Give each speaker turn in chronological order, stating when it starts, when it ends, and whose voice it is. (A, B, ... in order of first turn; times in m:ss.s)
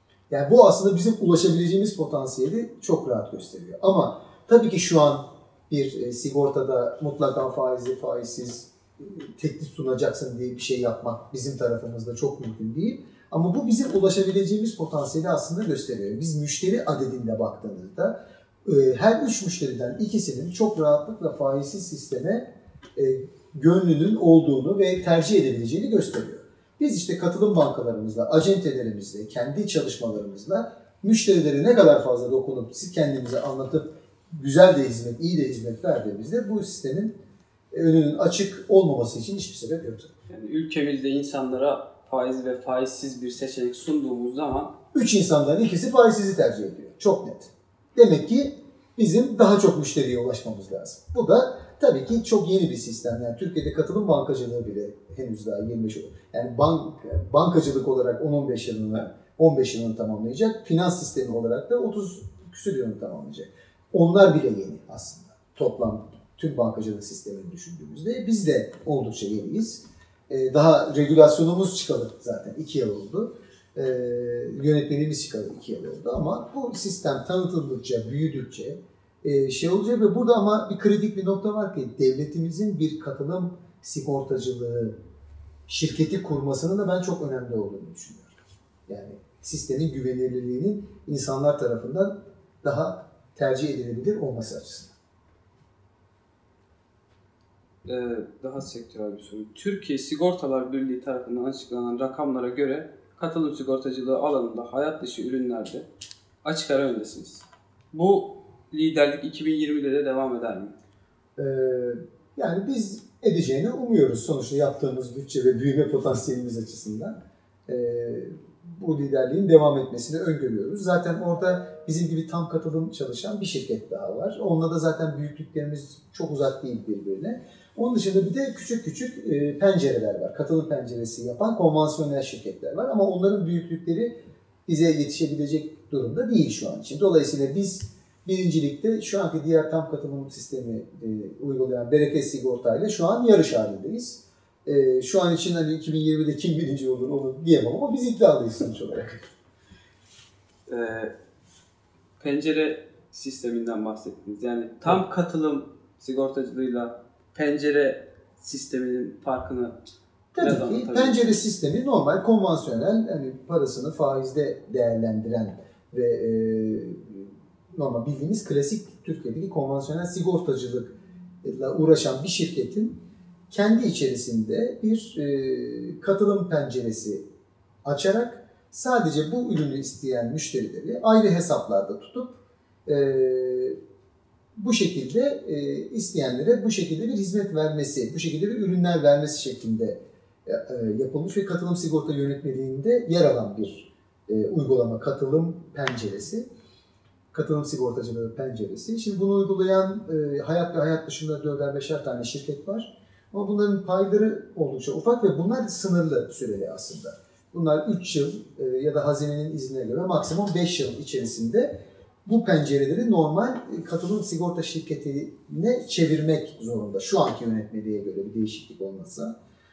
0:00.3-0:37.2 A
0:37.7-0:40.1 A
0:40.3-0:44.7 B
0:44.9-1:24.9 A
1:25.7-1:34.9 A
1:37.8-1:45.8 B
1:46.4-1:50.7 B
1:51.4-1:57.1 A
1:57.7-2:14.1 A
2:14.6-2:29.2 A
2:30.7-2:31.1 B
2:32.2-2:39.8 B
2:40.3-2:53.0 A
2:40.4-2:41.4 B
2:53.5-2:57.2 A
2:57.8-3:03.8 A
3:04.6-3:16.5 A
3:17.3-3:31.7 A
3:32.2-3:39.3 A